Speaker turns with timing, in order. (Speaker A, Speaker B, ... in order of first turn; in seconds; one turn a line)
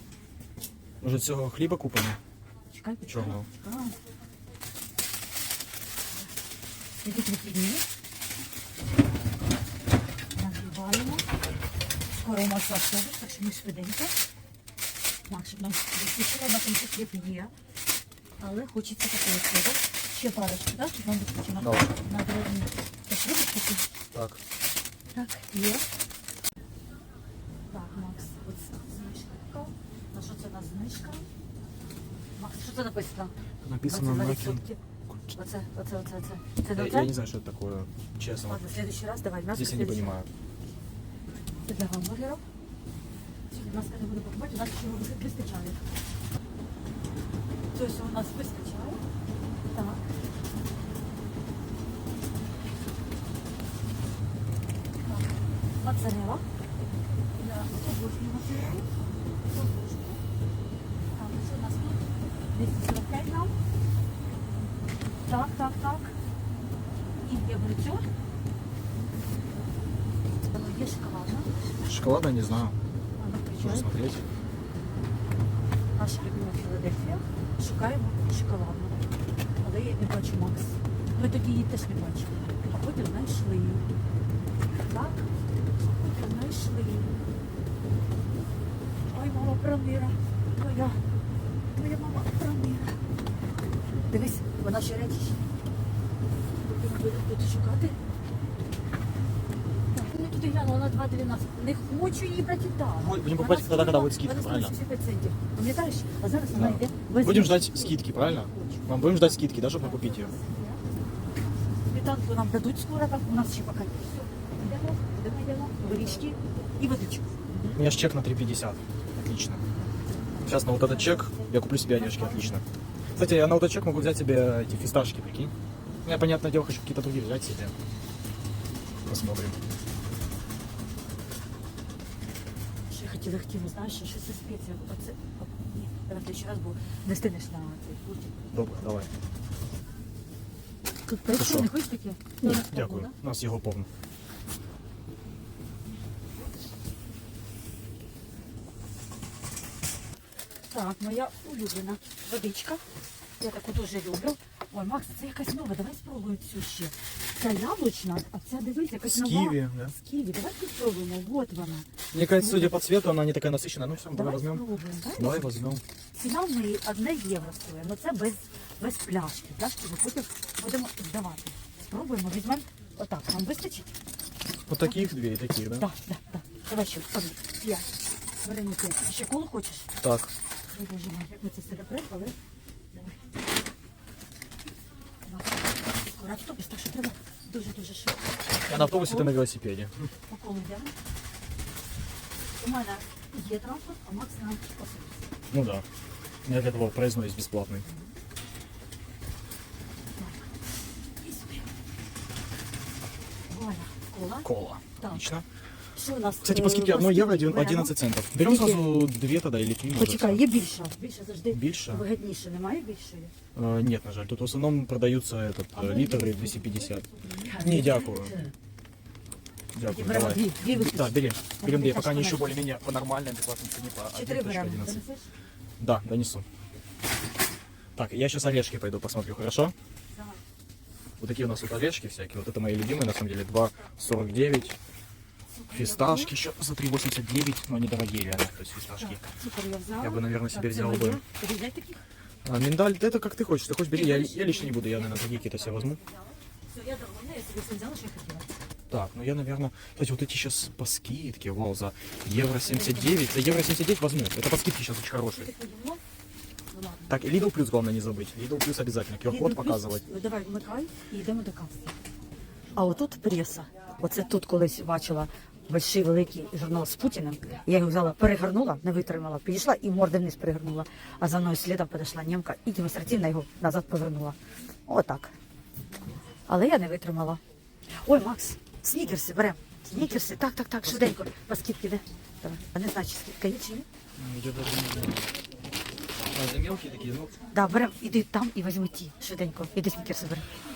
Speaker A: 1.0-2.2
Speaker B: 2.7-3.9
Speaker A: 3.1-3.5
Speaker B: 7.0-7.8
Speaker B: 10.3-11.3
Speaker B: 12.2-14.1
Speaker B: 15.3-17.5
Speaker B: 18.4-23.9
Speaker A: 21.6-21.9
Speaker A: 24.1-24.4
Speaker B: 25.1-25.8
Speaker B: 27.7-31.2
Speaker B: 32.4-34.8
Speaker A: 33.6-34.6
Speaker B: 35.3-37.1
Speaker A: 36.7-38.6
Speaker B: 38.5-40.2
Speaker A: 39.5-40.3
Speaker B: 41.6-42.4
Speaker B: 43.5-45.8
Speaker B: 47.7-49.0
Speaker B: 49.7-50.0
Speaker B: 55.8-56.4
Speaker B: 57.4-58.9
Speaker B: 59.5-60.2
Speaker B: 61.1-63.5
Speaker B: 65.2-66.1
Speaker B: 67.2-68.0
Speaker B: 70.4-71.7
Speaker A: 71.8-72.8
Speaker B: 73.2-73.9
Speaker A: 73.6-74.2
Speaker B: 76.0-79.0
Speaker B: 79.6-83.8
Speaker B: 84.8-85.2
Speaker B: 85.8-87.1
Speaker B: 89.1-91.0
Speaker B: 91.7-93.0
Speaker B: 94.1-95.4
Speaker B: 96.6-98.0
Speaker B: 99.9-110.8
Speaker A: 103.0-104.7
Speaker A: 106.5-110.3
Speaker B: 111.9-117.8
Speaker A: 117.7-119.6
Speaker B: 120.3-122.5
Speaker A: 120.4-122.6
Speaker A: 123.2-125.5
Speaker A: 126.0-127.7
Speaker A: 129.1-129.6
Speaker B: 132.9-138.4
Speaker A: 138.5-139.1
Speaker B: 141.1-143.1
Speaker A: 141.3-141.7
Speaker A: 142.4-143.9
Speaker B: 150.7-152.8
Speaker B: 153.4-162.8
Speaker A: 159.0-159.9
Speaker A: 162.1-164.6
Speaker B: 164.1-165.5
Speaker A: 165.2-165.8
Speaker B: 166.2-173.9
Speaker A: 174.7-175.9
Speaker B: 174.8-175.1
Speaker B: 175.8-177.9
Speaker B: 178.4-179.9
Speaker A: 180.0-180.3
Speaker B: 180.7-182.3
Speaker B: 185.2-189.4
Speaker A: 188.7-190.1
Speaker B: 190.3-190.9
Speaker B: 192.6-195.2
Speaker A: 195.5-195.8
Speaker A: 196.4-197.8
Speaker B: 200.2-200.5
Speaker B: 201.2-201.7
Speaker B: 203.5-205.3
Speaker A: 204.4-205.4
Speaker B: 205.9-208.8
Speaker A: 206.4-210.4
Speaker B: 209.9-213.3
Speaker A: 211.5-212.0
Speaker A: 213.5-218.3
Speaker B: 215.7-218.5
Speaker A: 219.7-225.0
Speaker B: 219.8-222.6
Speaker B: 224.1-225.3
Speaker A: 225.8-226.4
Speaker A: 227.9-229.7
Speaker A: 231.2-234.8
Speaker B: 235.5-236.3
Speaker A: 235.7-239.2
Speaker B: 239.0-242.0
Speaker A: 240.0-241.2
Speaker A: 242.4-246.0
Speaker B: 243.9-248.5
Speaker A: 248.9-255.5
Speaker B: 252.6-253.5
Speaker B: 255.3-256.0
Speaker B: 256.7-257.1
Speaker A: 257.1-260.0
Speaker B: 259.2-261.9
Speaker B: 262.7-275.3
Speaker B: 276.5-277.4
Speaker B: 278.0-283.9
Speaker A: 284.2-285.3
Speaker A: 286.3-287.3
Speaker B: 287.5-290.5